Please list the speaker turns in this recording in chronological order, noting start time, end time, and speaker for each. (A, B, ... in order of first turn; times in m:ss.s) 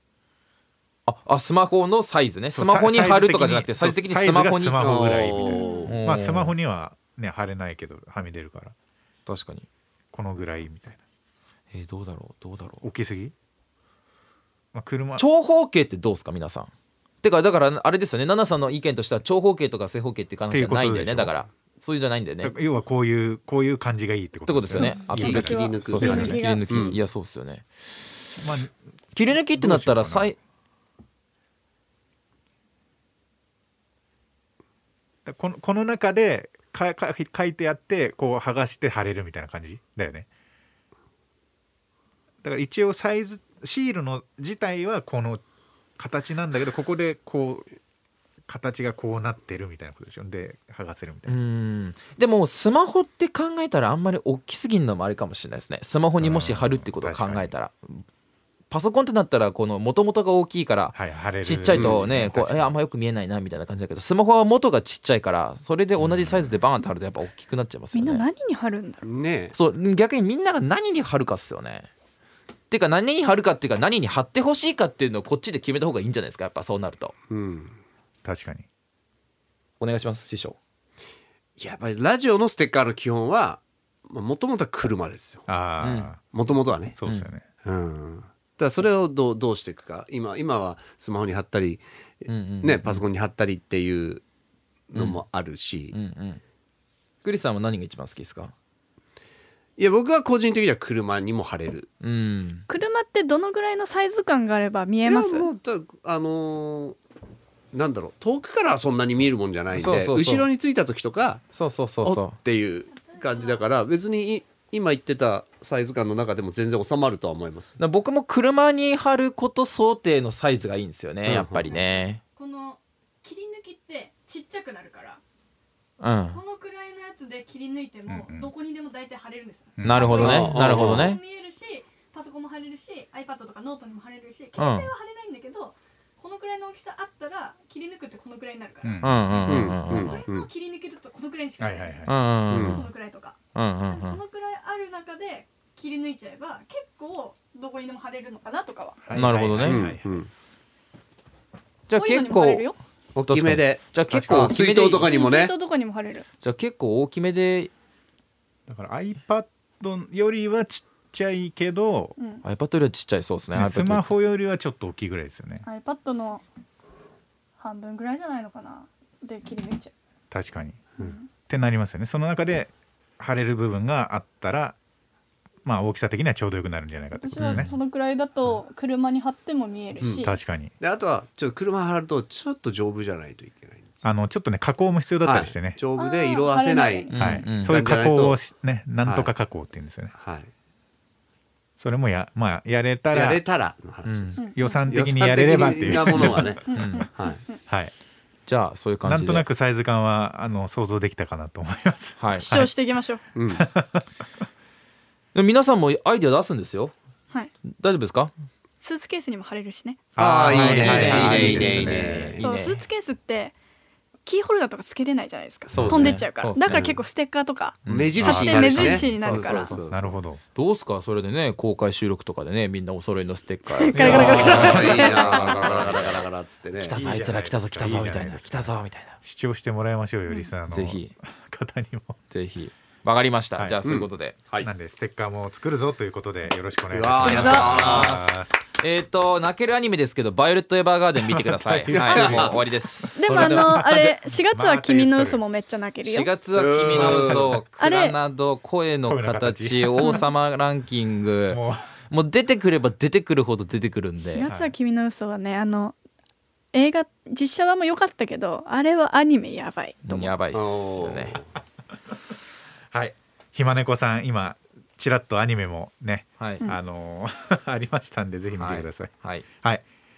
0:01.1-0:06.5 A
0:02.5-0:08.7 B
0:04.8-0:06.0 C
0:05.4-0:06.0 D
0:09.2-0:09.6 A
0:10.1-0:11.0 B
0:11.7-0:12.8 A
0:12.8-0:13.3 B
0:14.7-0:15.2 B
0:15.2-0:16.7 A
0:17.2-0:22.5 A
0:20.5-0:21.3 B
0:22.4-0:26.4 B
0:24.5-0:28.4 A
0:24.7-0:27.0 D
0:25.1-0:27.0 C
0:28.4-0:28.7 B
0:29.1-0:30.4 A
0:29.3-0:30.3 B
0:35.2-0:40.3 B
0:42.4-0:45.4 B
0:46.0-0:47.7 B
0:48.5-0:51.4 B
0:51.3-0:58.0 A
0:56.2-0:57.5 B
0:58.7-1:08.2 A
1:00.9-1:02.8 B
1:01.7-1:02.0 C
1:06.0-1:06.6 B
1:07.9-1:09.0 D
1:09.0-1:09.5 C
1:09.5-1:11.9 A
1:12.7-1:17.1 A
1:17.3-1:17.7 C
1:18.2-1:18.6 B
1:19.8-1:20.6 A
1:21.6-1:25.4 C
1:25.5-1:26.2 B
1:25.8-1:26.1 A
1:26.3-1:27.0 C
1:27.0-1:27.4 B
1:27.6-1:34.2 C
1:32.3-1:33.0 A
1:34.9-1:35.9 C
1:34.9-1:35.2 A
1:35.9-1:36.4 A
1:37.2-1:38.5 A
1:39.8-1:41.9 C
1:42.0-1:42.6 A
1:42.7-1:45.5 D
1:45.0-1:47.0 C
1:47.7-1:51.4 C
1:49.7-1:50.5 A
1:51.5-1:52.4 A
1:52.0-1:57.8 C
1:53.0-1:53.6 D
1:57.8-2:02.2 A
2:01.2-2:01.7 C
2:01.7-2:05.2 D
2:06.0-2:06.4 A
2:06.3-2:19.0 D
2:08.1-2:08.5 B
2:09.8-2:10.1 B
2:09.8-2:11.2 A
2:10.0-2:11.1 C
2:14.6-2:14.9 A
2:18.8-2:19.9 B
2:19.0-2:20.2 A
2:19.4-2:20.5 C
2:19.9-2:23.4 D
2:21.6-2:22.2 B
2:22.0-2:22.9 A
2:22.5-2:22.9 C
2:23.5-2:24.2 A
2:23.9-2:29.0 D
2:29.0-2:30.0 B
2:29.1-2:29.9 A
2:29.6-2:30.3 C
2:31.9-2:32.6 A
2:31.9-2:32.8 D
2:33.1-2:35.5 C
2:33.3-2:35.1 A
2:34.1-2:34.6 B
2:35.0-2:36.2 D
2:36.4-2:37.7 A
2:38.7-2:42.2 B
2:42.2-2:42.4 D
2:42.4-2:44.0 A
2:43.6-2:45.6 B
2:45.6-2:46.4 D
2:47.6-2:49.9 D
2:50.3-2:50.8 B
2:51.0-2:51.3 D
2:51.5-2:54.8 B
2:55.6-2:57.7 B
2:57.2-3:00.3 D
2:57.4-2:57.7 A
3:00.0-3:00.3 C
3:00.2-3:00.7 B
3:00.8-3:04.0 C
3:04.0-3:05.8 B
3:05.2-3:07.1 C
3:06.0-3:07.5 D
3:07.1-3:07.8 A
3:07.1-3:10.1 B
3:07.6-3:08.4 C
3:09.0-3:09.3 C
3:10.1-3:10.5 C
3:11.8-3:13.4 B
3:13.1-3:17.4 C
3:14.0-3:14.4 A
3:14.4-3:14.8 D
3:14.5-3:16.6 B
3:16.1-3:17.1 A
3:16.7-3:17.6 D
3:17.7-3:17.9 B
3:18.5-3:19.4 A
3:19.0-3:22.7 B
3:22.2-3:22.5 A
3:22.4-3:23.2 D
3:23.4-3:23.6 C
3:23.5-3:24.1 B
3:25.3-3:26.9 A
3:27.6-3:28.3 A
3:28.8-3:30.0 D
3:30.2-3:32.4 B
3:30.2-3:32.4 C
3:30.2-3:32.8 A
3:32.4-3:33.5 D
3:34.2-3:39.8 D
3:35.7-3:36.9 A
3:35.7-3:36.1 B
3:35.7-3:37.0 C
3:37.8-3:39.9 A
3:37.9-3:40.1 C
3:38.2-3:39.1 B
3:39.9-3:40.4 B
3:40.5-3:46.3 A
3:43.7-3:45.5 D
3:43.9-3:45.1 B
3:44.0-3:47.0 C
3:46.8-3:49.2 A
3:46.9-3:52.2 B
3:50.7-3:51.1 A
3:52.3-3:54.4 A
3:53.8-3:54.7 C
3:54.6-3:58.8 B
3:56.9-3:58.2 C
3:57.2-4:03.9 A
3:57.2-3:57.8 D
4:01.2-4:02.6 B
4:01.9-4:02.6 C
4:02.0-4:02.4 D
4:03.2-4:06.3 D
4:03.3-4:05.4 B
4:06.0-4:14.5 A
4:06.5-4:07.5 C
4:06.9-4:07.6 B
4:07.8-4:08.1 D
4:09.1-4:10.2 B
4:11.5-4:11.9 B
4:14.2-4:15.9 D
4:14.4-4:14.7 B
4:16.7-4:20.3 D
4:20.0-4:21.4 A
4:20.5-4:21.5 C
4:22.9-4:29.8 B
4:26.4-4:26.6 A
4:28.6-4:29.4 A